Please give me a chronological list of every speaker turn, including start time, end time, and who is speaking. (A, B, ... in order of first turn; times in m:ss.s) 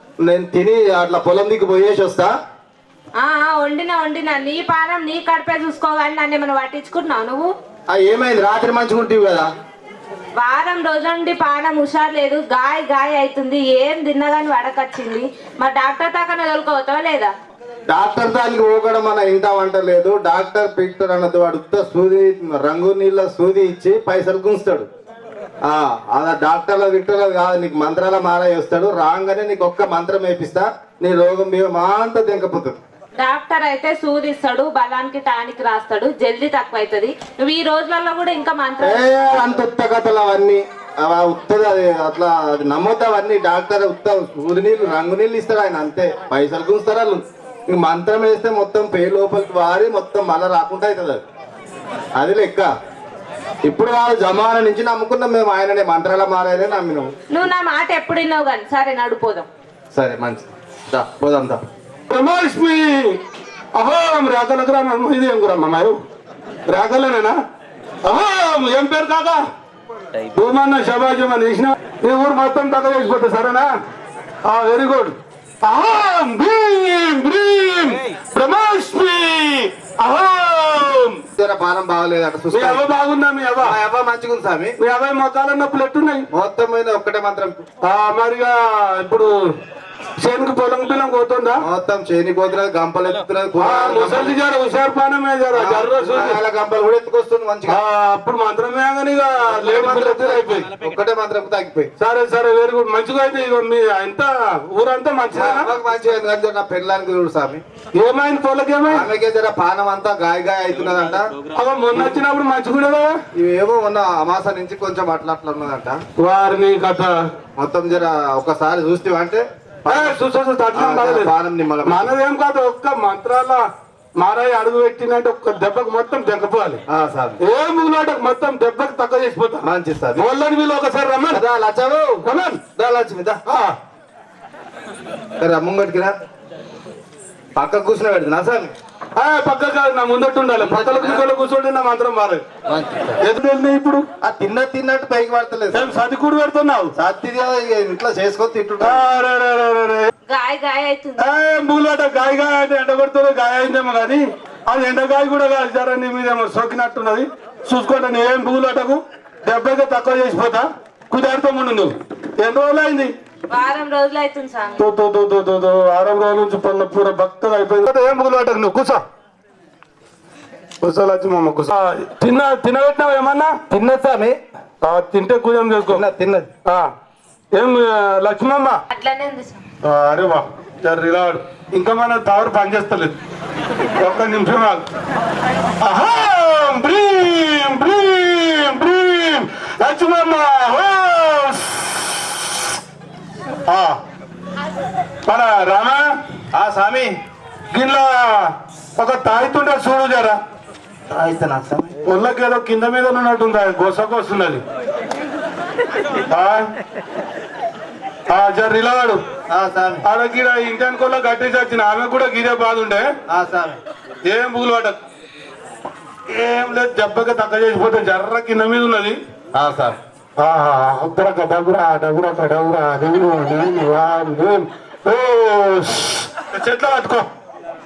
0:00.2-0:02.3 A
0:03.2-0:07.5 B
0:07.9-0:09.5 A
0:10.4-0:17.3 B
0:17.9-0:24.9 A
0:25.6-0:32.8 A
0:33.2-0:39.1 B
0:38.8-0:51.2 A
0:52.2-0:52.7 A
0:53.6-0:57.1 A
0:57.3-0:59.5 B
0:59.9-1:01.6 A
1:02.1-1:03.2 C
1:03.8-1:06.0 C
1:06.7-1:07.4 C
1:08.0-1:09.4 C
1:10.4-1:13.7 C
1:14.4-1:21.2 C
1:21.4-1:22.8 A
1:22.5-1:23.8 C
1:23.6-1:24.8 A
1:24.8-1:26.3 C
1:26.3-1:27.6 A
1:27.8-1:29.5 C
1:30.2-1:31.6 C
1:31.6-1:34.4 A
1:33.6-1:36.4 C
1:35.5-1:37.8 A
1:37.7-1:40.7 C
1:39.5-1:41.9 A
1:42.0-1:45.7 C
1:45.3-1:47.6 A
1:48.0-1:49.1 C
1:48.9-1:51.3 A
1:51.6-1:53.2 C
1:53.4-1:56.0 A
1:56.2-1:57.2 C
1:57.6-2:00.2 A
1:59.9-2:01.3 C
2:00.7-2:02.1 A
2:01.9-2:03.6 C
2:04.2-2:06.8 C
2:06.9-2:07.4 A
2:07.4-2:11.4 C
2:09.6-2:10.3 A
2:11.3-2:13.4 A
2:12.2-2:12.6 C
2:13.5-2:13.8 C
2:15.4-2:16.1 A
2:17.6-2:18.7 A
2:19.2-2:22.4 C
2:20.6-2:21.3 A
2:22.7-2:23.2 A
2:23.2-2:24.0 C
2:24.2-2:26.0 A
2:25.7-2:26.9 C
2:27.0-2:29.1 A
2:28.8-2:30.1 C
2:30.3-2:31.3 B
2:31.2-2:43.1 C
2:43.5-2:44.8 B
2:44.8-2:49.0 C
2:50.8-2:53.7 C
2:53.7-2:54.4 A
2:54.8-2:56.0 C
2:55.9-2:56.5 A
2:56.7-2:56.9 C
2:57.5-2:58.8 C
2:58.9-2:59.6 B
2:59.8-3:03.2 C
3:04.0-3:04.8 C
3:05.8-3:12.2 C
3:13.7-3:14.0 C
3:15.3-3:16.1 C
3:16.5-3:17.2 A
3:17.7-3:20.4 C
3:21.1-3:21.9 A
3:22.0-3:24.6 C
3:26.3-3:26.7 C
3:28.3-3:29.2 C
3:29.5-3:30.0 A
3:30.0-3:33.1 C
3:33.3-3:33.8 A
3:34.2-3:35.0 C
3:36.3-3:39.2 C
3:39.5-3:40.0 A
3:40.4-3:47.3 C